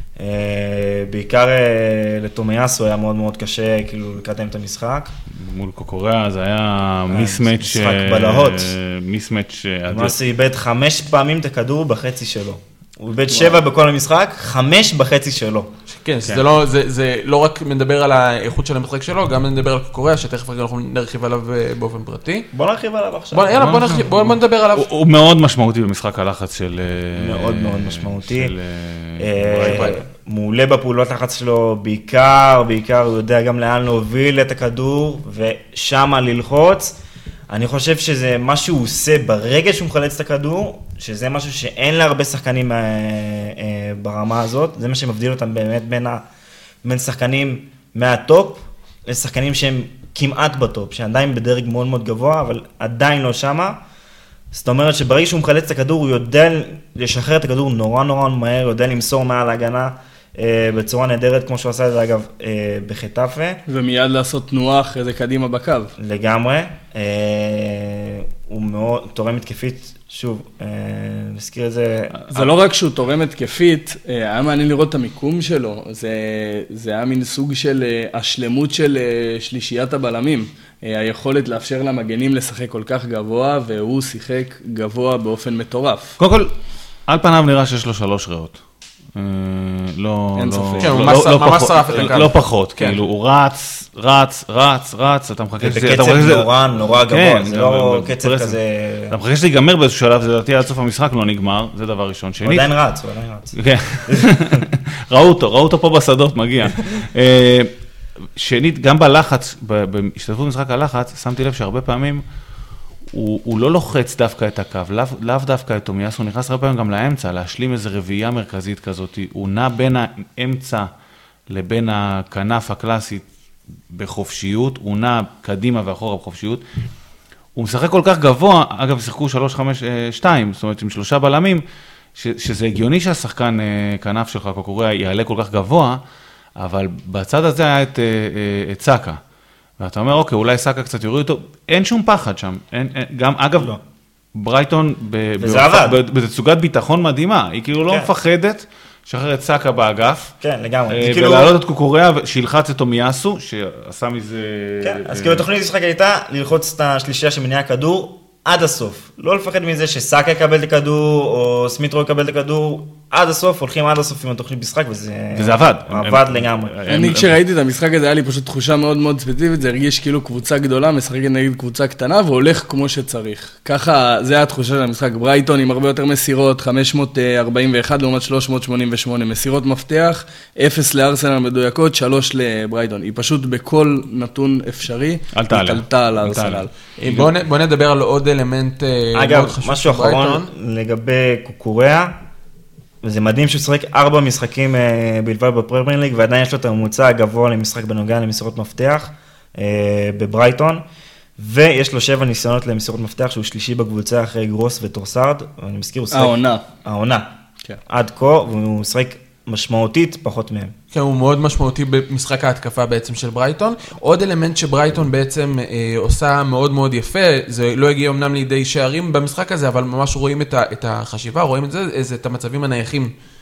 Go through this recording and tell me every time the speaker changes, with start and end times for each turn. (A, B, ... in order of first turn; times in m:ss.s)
0:00.2-0:05.1 A
0:05.3-0:10.2 B
0:07.1-0:08.8 A
0:09.9-0:15.7 A
0:15.9-0:22.5 C
0:22.5-0:23.6 A
0:23.3-0:24.9 C
0:23.5-0:30.0 B
0:27.1-0:28.5 A
0:29.2-0:37.0 A
0:29.6-0:29.9 C
0:37.5-0:46.2 A
0:46.8-0:53.8 A
0:54.5-1:03.6 A
1:03.7-1:05.9 D
1:06.0-1:12.2 A
1:12.1-1:12.5 B
1:12.3-1:26.1 D
1:26.2-1:26.5 B
1:27.1-1:28.6 B
1:29.2-1:36.5 B
1:30.4-1:31.1 D
1:30.8-1:33.0 C
1:35.6-1:39.2 A
1:37.1-1:38.6 B
1:39.1-1:42.7 B
1:42.4-1:44.6 A
1:43.6-1:47.7 B
1:48.4-1:52.2 B
1:53.1-2:00.9 B
2:01.5-2:03.3 B
2:03.9-2:06.6 B
2:07.6-2:11.6 B
2:12.2-2:16.0 B
2:16.6-2:19.2 B
2:19.8-2:23.8 B
2:24.4-2:30.3 B
2:25.4-2:26.0 A
2:30.4-2:31.6 A
2:30.9-2:35.4 B
2:34.8-2:46.8 A
2:45.4-2:47.4 B
2:46.9-3:06.7 D
3:05.3-3:07.3 B
3:07.0-3:10.5 C
3:09.2-3:12.2 A
3:13.0-3:20.8 A
3:21.4-3:27.3 A
3:26.1-3:26.6 D
3:27.9-3:30.7 A
3:30.9-3:43.1 C